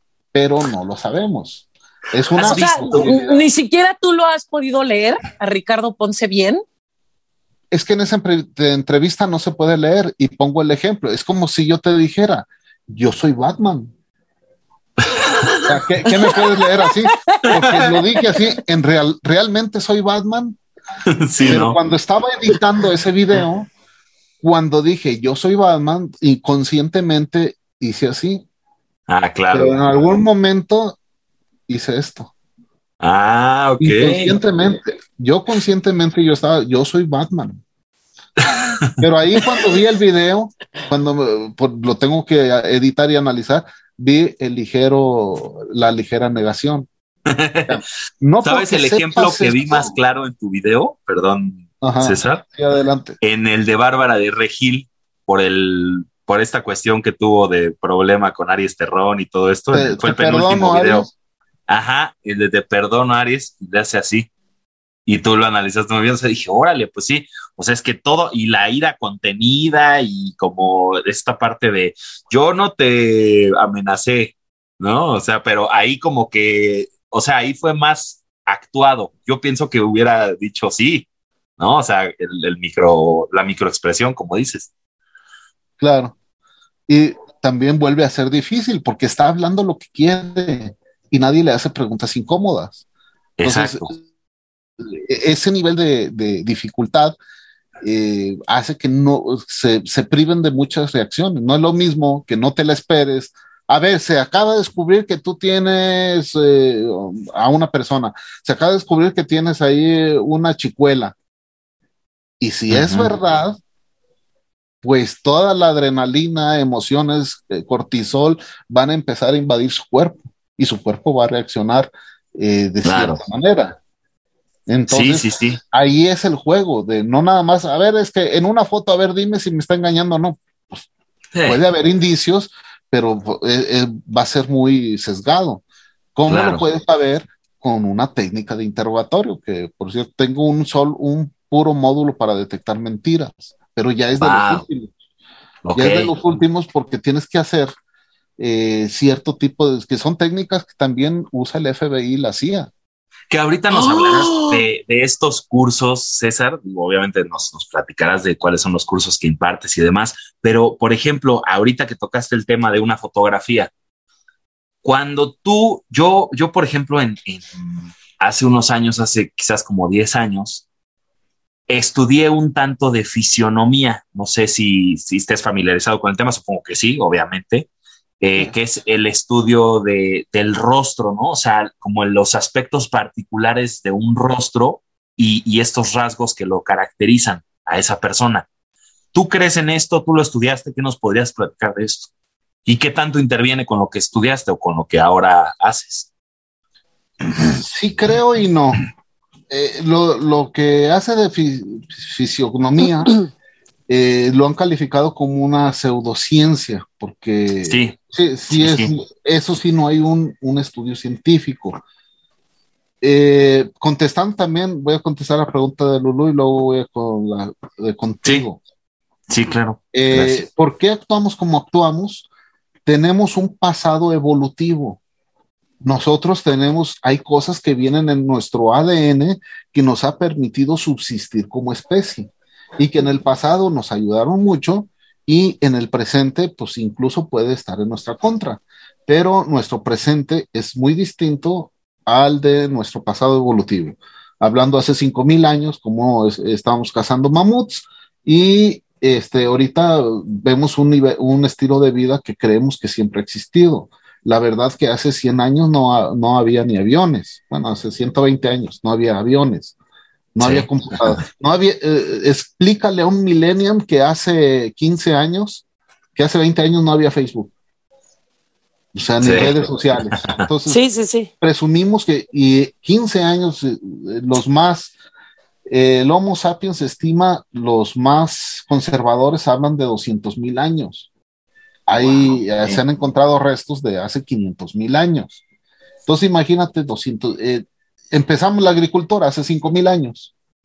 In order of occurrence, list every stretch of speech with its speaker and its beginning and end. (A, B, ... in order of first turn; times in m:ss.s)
0:00.3-0:03.4 A
0:02.4-0:03.1 B
0:02.4-0:06.6 C
0:07.7-0:13.9 A
0:15.1-0:15.8 B
0:15.7-0:20.6 A
0:17.5-0:18.0 B
0:21.1-0:21.8 B
0:21.4-0:23.7 A
0:24.4-0:28.4 A
0:29.1-0:29.8 B
0:29.5-0:31.0 A
0:31.7-0:32.3 A
0:33.0-0:34.4 B
0:33.8-0:37.6 A
0:38.4-0:39.0 B
0:39.0-0:46.9 A
0:47.3-0:47.8 B
0:47.7-0:49.9 A
0:48.4-0:52.4 B
0:51.8-0:53.2 A
0:53.2-1:01.1 B
0:59.7-1:01.1 A
1:01.7-1:04.3 B
1:05.1-1:21.1 B
1:21.6-1:24.7 B
1:25.8-1:26.2 A
1:26.9-1:32.8 A
1:33.4-1:33.9 B
1:33.4-1:34.0 A
1:34.8-1:37.2 A
1:37.8-1:51.1 A
1:52.4-1:53.6 A
1:52.7-1:53.1 B
1:54.8-2:03.8 A
2:02.8-2:03.2 B
2:04.7-2:10.9 A
2:04.9-2:05.6 B
2:11.4-2:11.6 B
2:11.4-2:15.6 A
2:16.2-2:24.9 A
2:16.3-2:16.6 B
2:24.2-2:24.6 B
2:25.6-2:26.2 B
2:25.8-2:27.7 A
2:28.4-2:32.7 A
2:33.3-2:43.7 B
2:33.7-2:34.7 C
2:44.8-2:50.6 B
2:51.7-2:57.7 B
2:58.2-3:08.5 B
3:09.1-3:12.1 B
3:12.7-3:16.1 B
3:17.4-3:18.8 A
3:19.5-3:23.2 A
3:23.9-3:31.8 A
3:27.7-3:28.0 B
3:28.5-3:28.9 B
3:33.0-3:38.6 A
3:39.3-3:40.4 B
3:39.9-3:42.3 A
3:42.9-3:45.0 A
3:45.8-4:19.8 A
4:20.4-4:25.6 A
4:20.4-4:21.0 B
4:26.2-4:27.5 A
4:28.9-4:30.8 A
4:29.2-4:29.6 B
4:30.7-4:31.3 C
4:31.4-4:34.9 A
4:35.7-4:41.1 A
4:41.9-4:45.4 A
4:42.0-4:42.8 B
4:46.1-4:50.3 A